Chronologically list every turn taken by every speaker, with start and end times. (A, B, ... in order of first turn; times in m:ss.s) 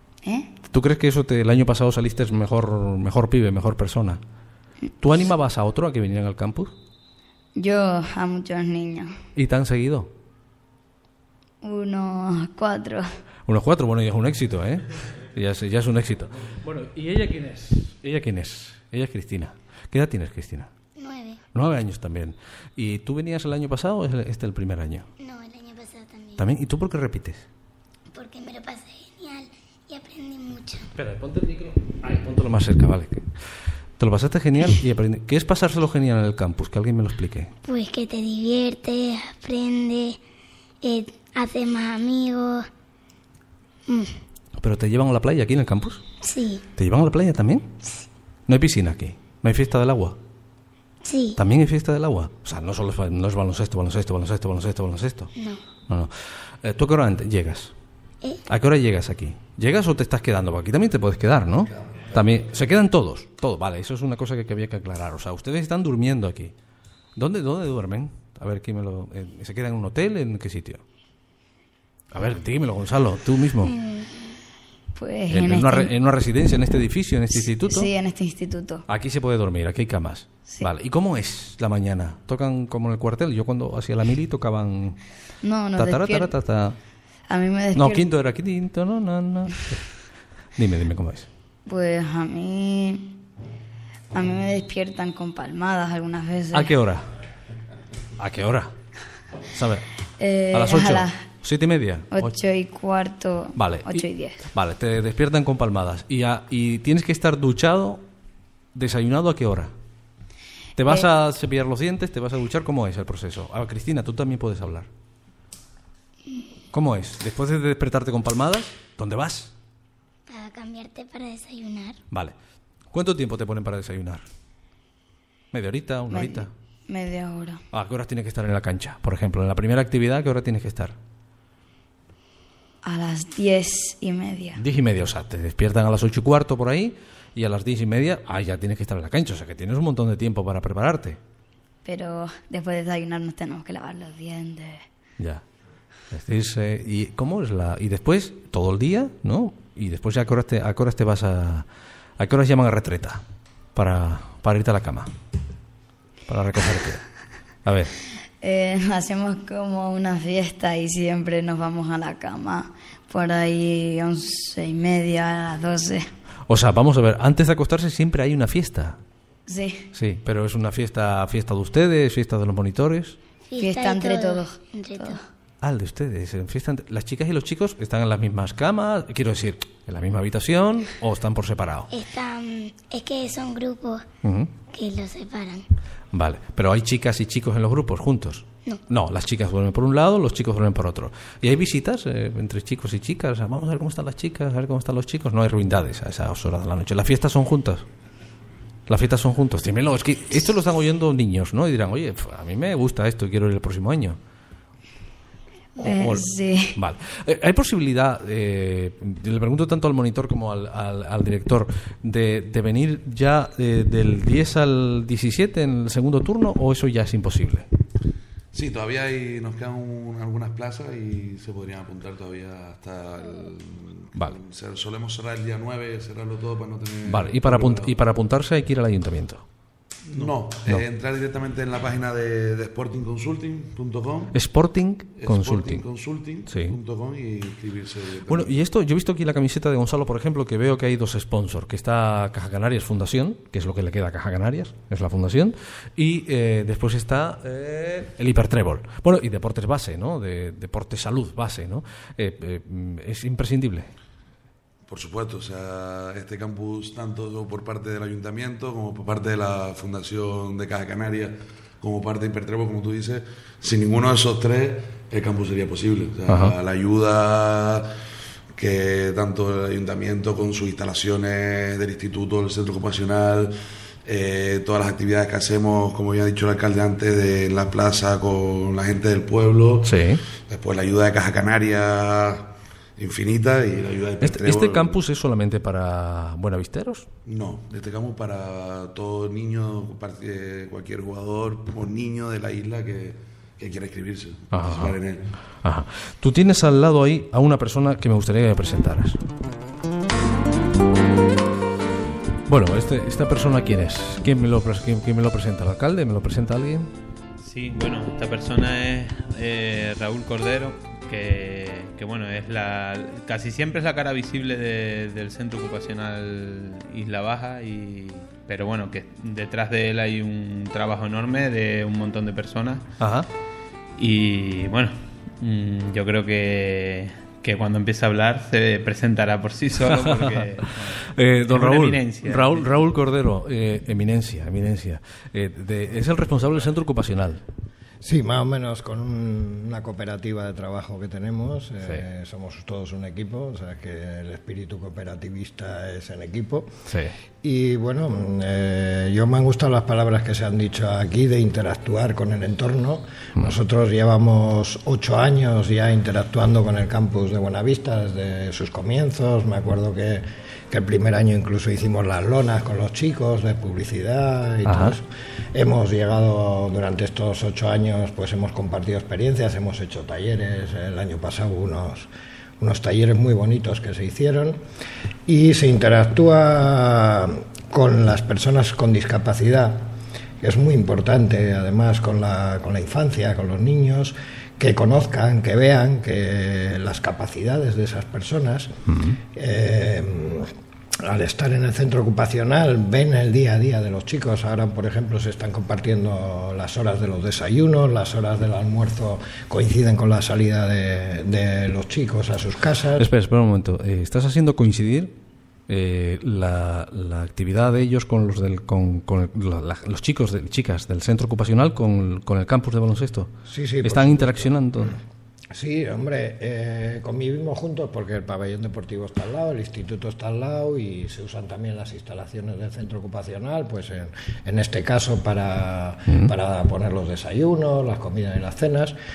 0:00.2-0:00.5 A
0:00.7-0:04.2 B
0:05.0-0:06.7 B
0:07.6-0:09.2 A
0:09.4-0:10.1 B
0:11.6-0:13.2 A
0:13.5-0:20.7 B
0:21.0-0:21.4 C
0:21.5-0:25.1 B
0:25.2-0:26.5 C
0:26.4-0:27.5 B
0:28.1-0:30.9 C
0:31.0-0:33.3 B
0:34.0-0:37.5 B
0:37.6-0:40.2 C
0:40.8-0:42.7 C
0:43.9-0:44.2 C
0:44.6-0:46.0 B
0:46.2-0:46.6 C
0:46.8-0:47.7 B
0:48.5-0:50.2 B
0:51.0-0:51.4 C
0:51.4-0:55.3 B
0:55.4-0:55.6 C
0:55.9-0:57.7 B
0:58.5-1:06.5 B
1:07.2-1:10.8 B
1:12.1-1:13.7 B
1:13.6-1:14.4 C
1:15.0-1:15.9 A
1:15.3-1:17.9 B
1:17.4-1:18.9 A
1:18.9-1:25.0 B
1:25.4-1:26.3 A
1:25.8-1:26.8 B
1:27.3-1:28.1 A
1:27.8-1:29.9 B
1:30.6-1:31.3 B
1:31.7-1:33.1 A
1:34.1-1:36.7 A
1:36.5-1:37.1 B
1:38.2-1:38.7 B
1:39.5-1:39.8 B
1:40.2-1:41.2 A
1:40.5-1:42.3 B
1:42.1-1:44.4 A
1:43.6-1:48.0 B
1:48.8-1:49.7 B
1:50.8-1:54.9 B
1:56.7-1:59.5 B
2:00.3-2:02.0 C
2:02.9-2:04.2 B
2:05.5-2:06.5 B
2:06.1-2:07.6 A
2:07.7-2:11.0 B
2:12.8-2:14.6 A
2:14.6-2:21.2 B
2:21.8-2:24.8 A
2:26.1-2:31.7 B
2:32.2-2:33.2 B
2:33.8-2:35.1 B
2:36.3-2:37.0 B
2:37.6-2:37.9 B
2:38.4-2:46.1 A
2:46.5-2:49.0 B
2:49.5-2:49.9 A
2:49.9-2:53.2 B
2:53.5-2:55.2 C
2:53.6-2:55.2 A
2:55.6-3:01.9 B
3:01.9-3:04.0 C
3:04.2-3:04.5 B
3:04.7-3:05.6 C
3:06.1-3:17.9 B
3:18.9-3:24.2 B
3:25.8-3:37.7 B
3:25.8-3:26.8 A
3:38.5-3:48.0 D
3:47.1-3:49.4 B
3:50.1-3:54.4 D
3:50.2-3:50.8 B
3:54.3-3:55.8 B
3:55.2-3:58.5 D
3:56.5-3:56.8 B
3:58.3-4:13.9 B
4:14.9-4:27.9 D
4:26.3-4:26.6 B
4:28.5-4:33.5 D
4:34.0-4:39.9 D
4:39.8-4:40.2 B
4:40.5-4:45.0 D
4:44.2-4:47.1 B
4:47.3-4:55.3 D
4:54.5-4:55.0 B
4:55.6-4:59.2 B
5:02.5-5:06.9 B
5:07.4-5:22.9 E
5:23.0-5:23.3 B
5:24.0-5:32.7 E
5:29.9-5:37.4 B
5:38.0-5:46.7 F
5:46.9-5:47.2 B
5:47.4-6:14.6 F
6:04.7-6:05.0 B
6:15.3-6:28.8 F
6:28.9-6:29.2 B
6:29.3-6:43.1 F
6:43.0-6:45.1 B
6:45.7-6:53.3 B
6:53.5-6:55.0 F
6:53.8-6:55.0 B
6:55.5-7:09.0 F